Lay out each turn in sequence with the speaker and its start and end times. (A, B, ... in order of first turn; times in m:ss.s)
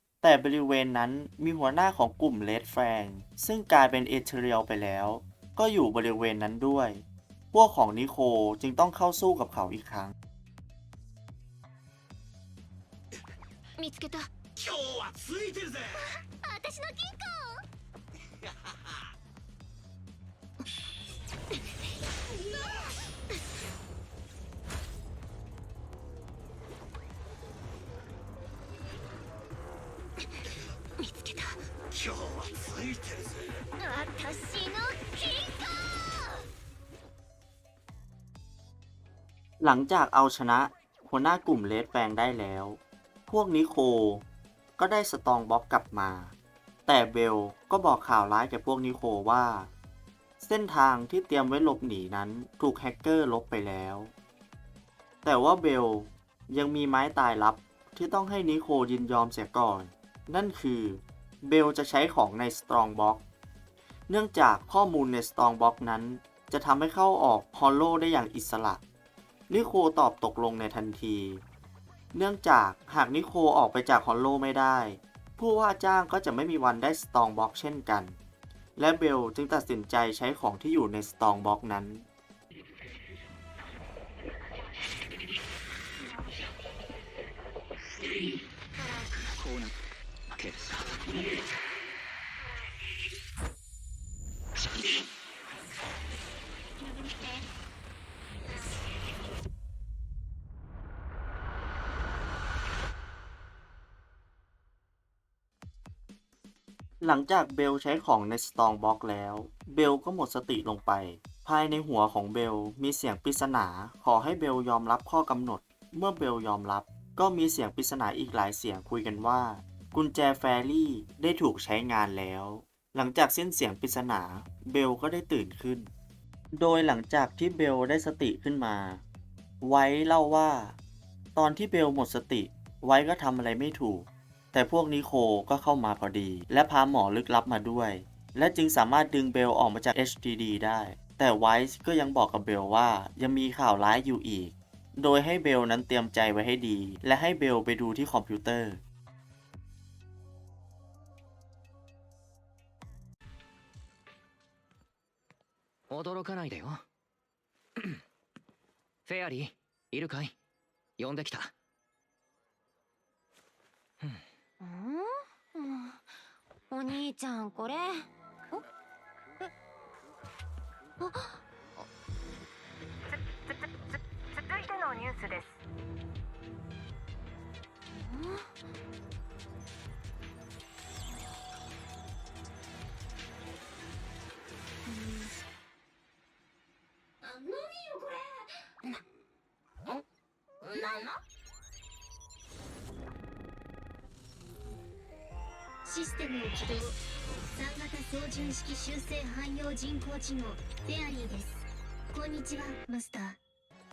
0:00.2-0:10.1 A
0:13.8-0:14.3 B
0:14.6-0:15.9 C
0:16.4-0:17.6 B
0:31.0-0:31.6 B
0:31.9-0:33.3 C
0:33.8-0:36.4 B
0:39.6-0:44.2 A
0:44.8-0:46.3 A
0:46.9-0:49.7 A
0:50.4-0:54.1 A
0:55.2-1:03.2 A
1:04.1-1:08.8 A
1:09.5-1:11.4 A
1:12.1-1:18.2 A
1:18.8-1:22.1 A
1:29.4-1:29.7 D
1:30.3-1:30.8 D
1:47.0-2:05.9 A
2:06.5-2:09.0 A
2:09.6-2:10.8 A
2:11.4-2:28.8 A
2:35.9-2:36.8 D
2:39.1-2:40.4 D
2:41.0-2:41.5 D
2:44.6-2:46.1 B
2:46.7-2:48.6 B
2:51.0-2:51.4 B
2:54.7-2:55.4 E
2:57.9-2:58.5 B
3:04.9-3:05.3 B
3:07.2-3:09.0 B
3:10.6-3:11.2 B
3:15.9-3:16.4 E
3:15.9-3:17.0 B
3:17.6-3:21.6 B
3:17.6-3:21.6 E
3:22.1-3:23.4 B
3:22.1-3:23.4 E